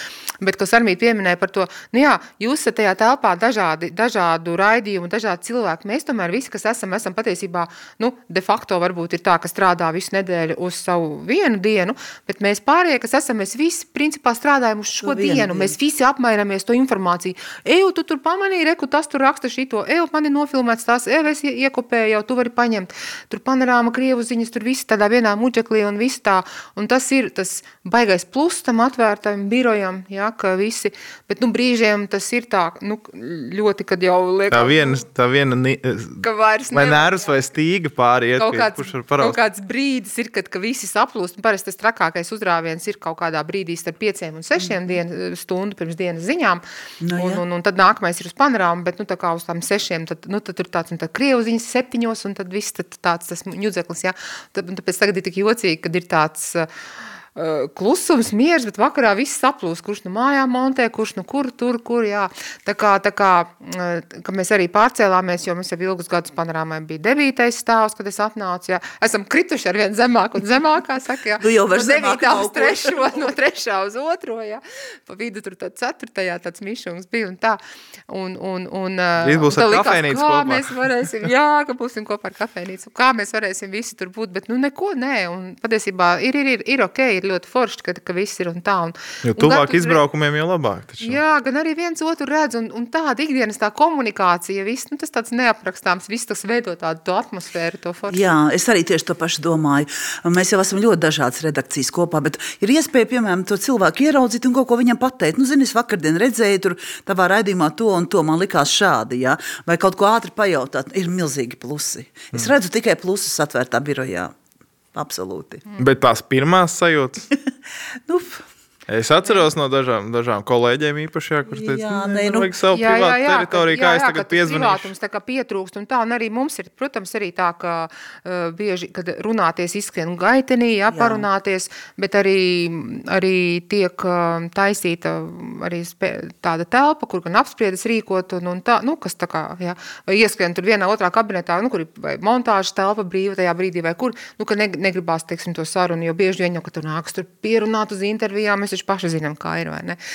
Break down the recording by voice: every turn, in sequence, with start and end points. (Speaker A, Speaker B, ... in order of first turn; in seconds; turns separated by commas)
Speaker A: 0.4-35.0, Speaker B: 15.0-15.8, Speaker C: 34.5-39.4, Speaker A: 36.2-37.2, Speaker A: 38.4-46.6, Speaker B: 47.0-47.4, Speaker A: 47.2-56.7, Speaker A: 57.4-90.0, Speaker B: 71.4-73.2, Speaker C: 79.2-80.7, Speaker C: 89.3-91.2, Speaker A: 91.0-98.2, Speaker B: 98.1-114.3, Speaker B: 115.0-115.6, Speaker C: 115.8-117.2, Speaker B: 118.1-118.5, Speaker C: 118.9-124.9, Speaker B: 121.5-122.5, Speaker A: 122.7-150.0, Speaker B: 130.9-131.2